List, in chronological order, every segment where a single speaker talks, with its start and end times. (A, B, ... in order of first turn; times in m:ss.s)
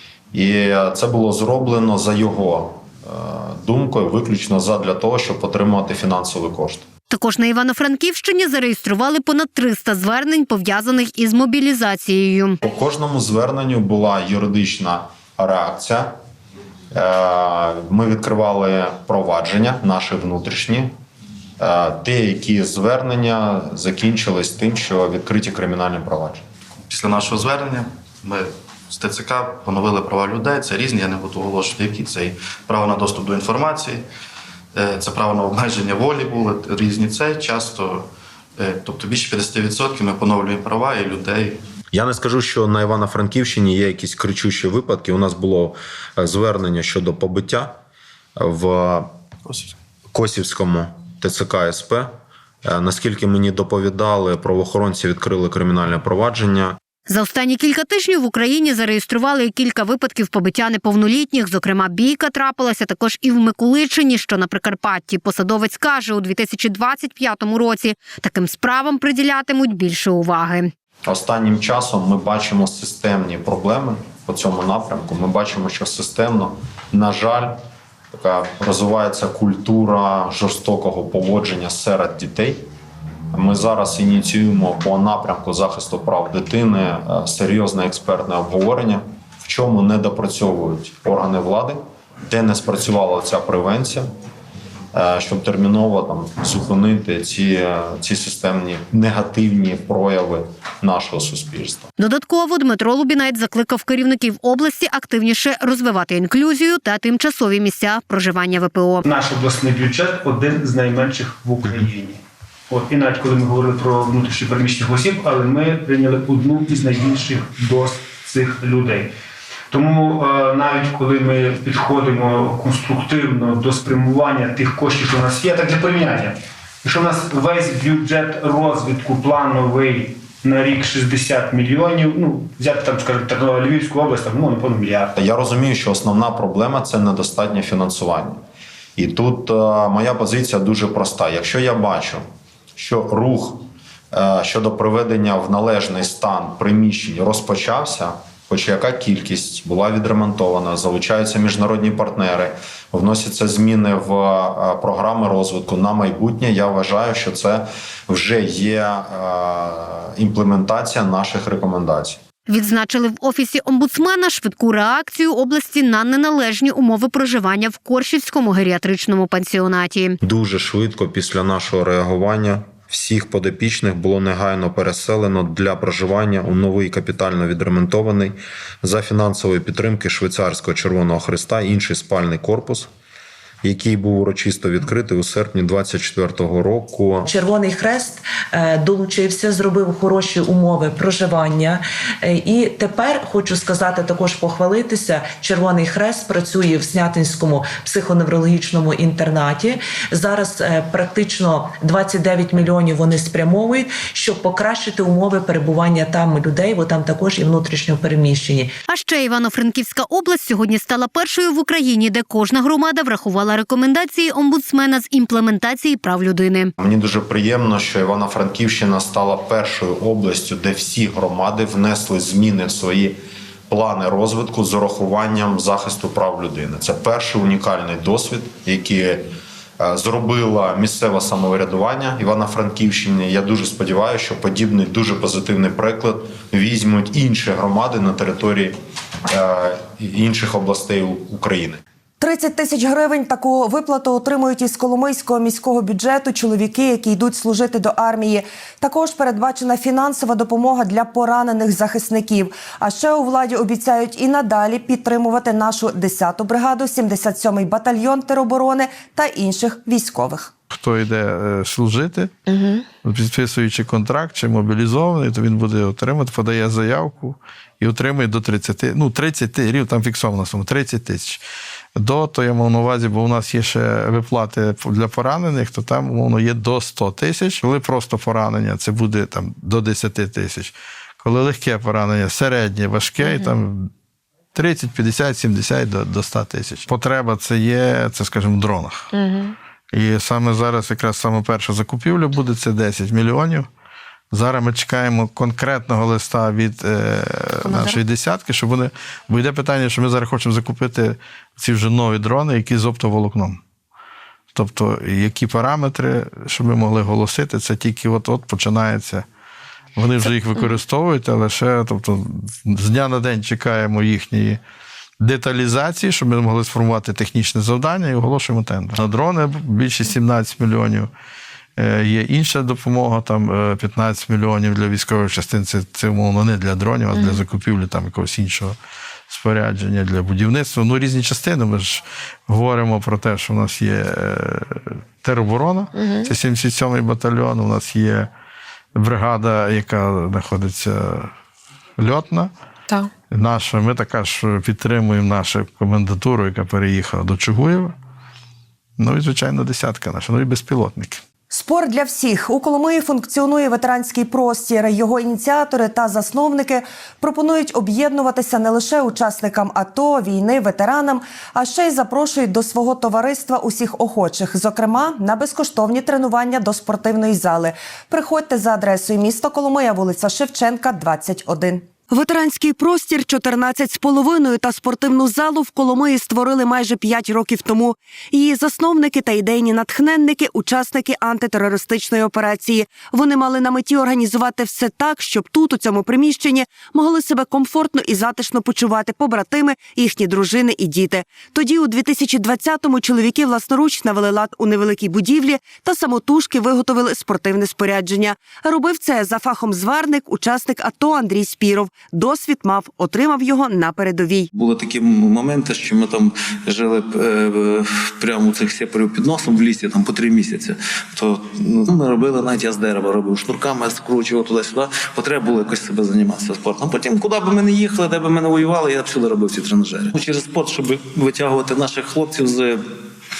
0:00.3-0:06.9 A
0:07.1-0:12.6 B
0:12.6-0:16.1 A
0:16.9-0:20.9 A
0:21.6-0:26.4 A
0:26.9-0:34.0 C
0:34.8-0:38.0 C
0:38.6-0:41.6 C
0:41.9-0:47.8 A
0:48.4-0:49.1 A
0:50.1-0:52.1 A
0:52.6-0:56.8 A
0:57.1-1:10.7 B
1:11.0-1:17.6 A
1:18.1-1:22.6 A
1:23.3-1:34.1 A
1:34.9-1:41.9 A
1:42.0-1:49.0 B
1:49.1-1:52.2 D
1:52.7-1:59.1 D
1:59.7-2:15.1 D
2:15.2-2:18.4 A
2:19.0-2:22.2 A
2:22.8-2:42.2 A
2:42.5-2:50.2 B
2:50.2-3:02.9 A
3:03.6-3:07.3 A
3:07.3-3:28.7 E
3:28.9-3:36.7 B
3:36.8-3:43.2 A
3:43.7-3:49.2 A
3:49.8-3:58.7 A
3:59.3-4:01.8 A
4:02.2-4:20.5 F
4:20.7-4:22.3 G
4:23.0-4:31.4 G
4:32.0-4:43.9 G
4:44.5-4:49.1 G
4:49.9-4:53.7 G
4:54.3-5:03.6 G
5:04.5-5:09.2 G
5:10.0-5:14.6 G
5:15.2-5:21.1 G
5:21.8-5:28.7 G
5:29.3-5:38.3 G
5:39.0-5:41.3 G
5:42.0-5:42.5 G
5:43.3-5:47.9 G
5:49.0-5:51.2 G
5:51.5-6:44.5 F
6:44.5-7:02.8 H